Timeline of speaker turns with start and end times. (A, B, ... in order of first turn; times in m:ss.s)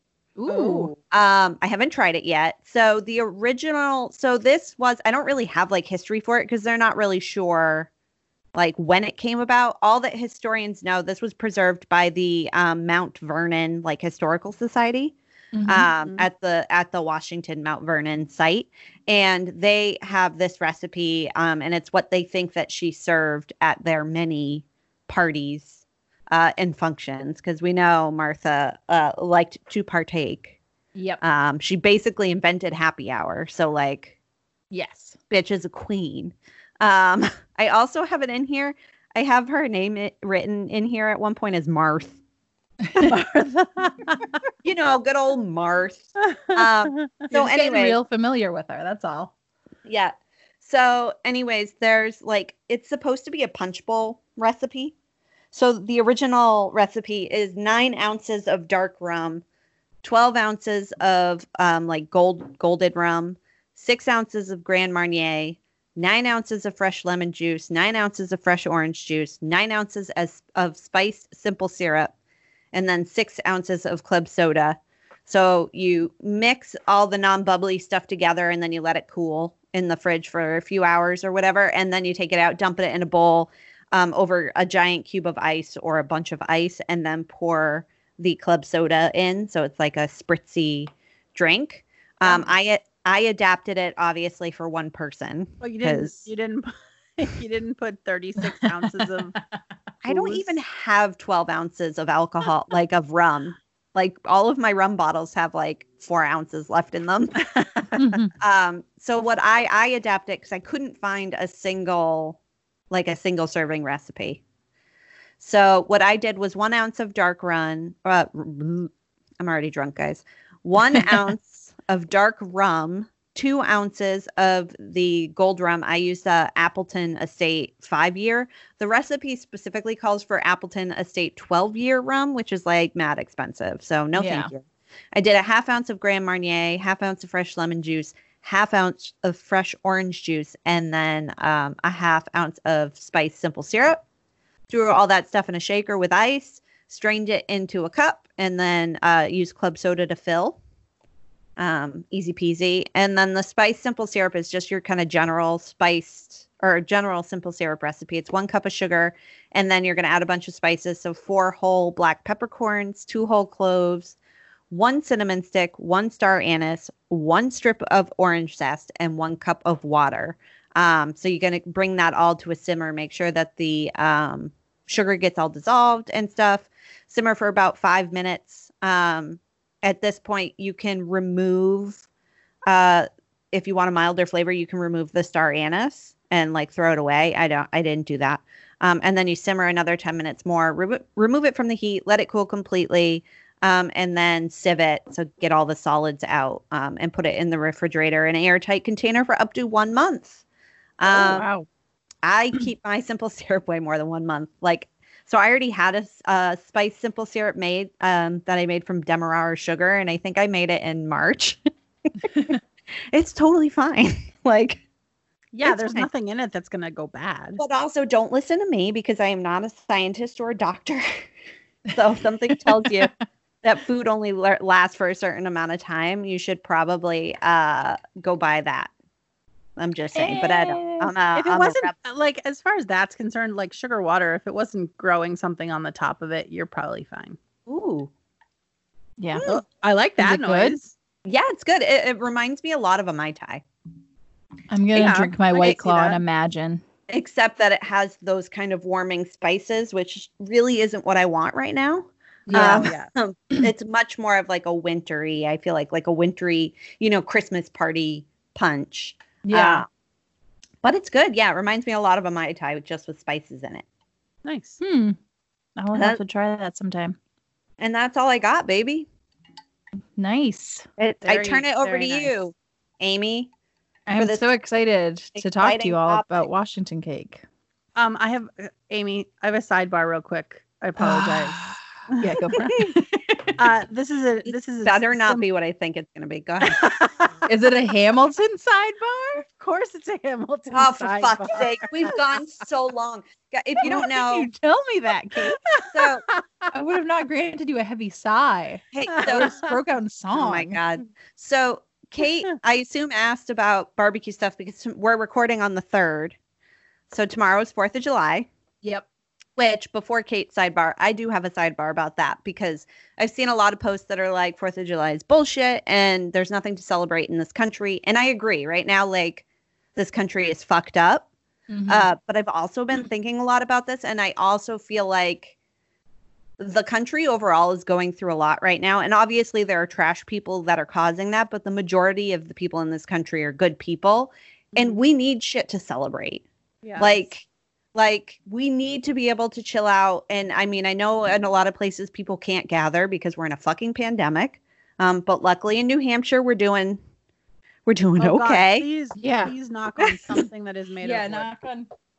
0:00.4-0:00.9 A
0:00.5-0:07.9 B
0:08.6-0:15.2 B
0:15.5-0:15.9 A
0:15.7-0:30.6 B
0:31.0-0:31.2 A
0:31.2-0:34.2 B
0:34.7-0:35.2 A
0:35.3-0:42.2 B
0:42.8-0:43.1 A
0:43.0-0:44.3 C
0:44.6-0:48.0 B
0:46.3-0:47.3 C
0:47.3-0:49.3 A
0:49.8-0:55.0 B
0:55.5-0:59.4 B
1:00.0-1:12.1 B
1:12.7-1:36.3 B
1:35.6-1:39.4 C
1:38.6-1:39.6 A
1:40.0-1:47.4 B
1:47.6-1:48.1 C
1:48.0-1:48.3 A
1:48.4-1:52.4 B
1:52.9-1:54.4 B
1:55.4-2:14.6 B
2:14.2-2:14.5 A
2:15.2-2:24.0 B
2:24.7-2:30.6 B
2:31.6-2:44.2 B
2:44.7-3:02.0 B
3:02.7-3:20.4 B
3:21.0-3:21.5 B
3:21.1-3:21.7 A
3:22.2-3:31.6 B
3:32.2-3:32.5 B
3:33.1-3:34.8 B
3:35.5-3:37.6 C
3:35.6-3:36.1 B
3:37.6-3:41.3 B
3:41.9-3:43.1 B
3:43.6-3:48.9 B
3:49.8-3:51.9 B
3:50.2-3:51.1 A
3:51.4-3:57.4 C
3:57.7-3:58.1 B
3:59.2-3:59.4 A
3:59.4-3:59.6 B
3:59.4-4:00.9 C
4:00.2-4:00.8 A
4:01.2-4:03.6 B
4:04.7-4:06.8 A
4:05.0-4:06.2 C
4:07.1-4:19.9 B
4:12.5-4:12.9 A
4:12.5-4:13.1 C
4:19.4-4:19.8 A
4:20.8-4:23.8 B
4:24.4-4:24.8 C
4:24.8-4:25.2 A
4:25.8-4:27.2 A
4:25.9-4:26.2 B
4:27.8-4:29.1 B
4:30.2-4:30.9 A
4:31.0-4:33.5 B
4:31.2-4:32.3 C
4:34.1-4:37.4 A
4:34.2-4:34.5 B
4:35.4-4:36.4 B
4:38.0-4:42.4 C
4:41.0-4:43.6 A
4:43.6-4:45.5 C
4:44.5-4:46.9 B
4:46.7-4:47.4 C
4:47.5-4:49.4 A
4:49.4-4:52.1 C
4:50.7-4:54.5 B
4:53.8-4:55.6 A
4:55.6-4:56.7 C
4:55.8-4:56.2 B
4:56.7-5:00.8 A
4:58.9-4:59.6 B
4:59.3-4:59.7 C
5:00.3-5:06.4 B
5:07.1-5:08.5 B
5:09.6-5:19.4 B
5:20.0-5:21.3 B
5:21.7-5:22.1 A
5:21.9-5:25.5 B
5:26.6-5:36.4 B
5:36.8-5:37.2 C
5:37.0-5:47.0 B
5:47.9-5:48.9 B
5:48.2-5:51.5 C
5:49.2-5:49.5 A
5:51.0-5:51.9 A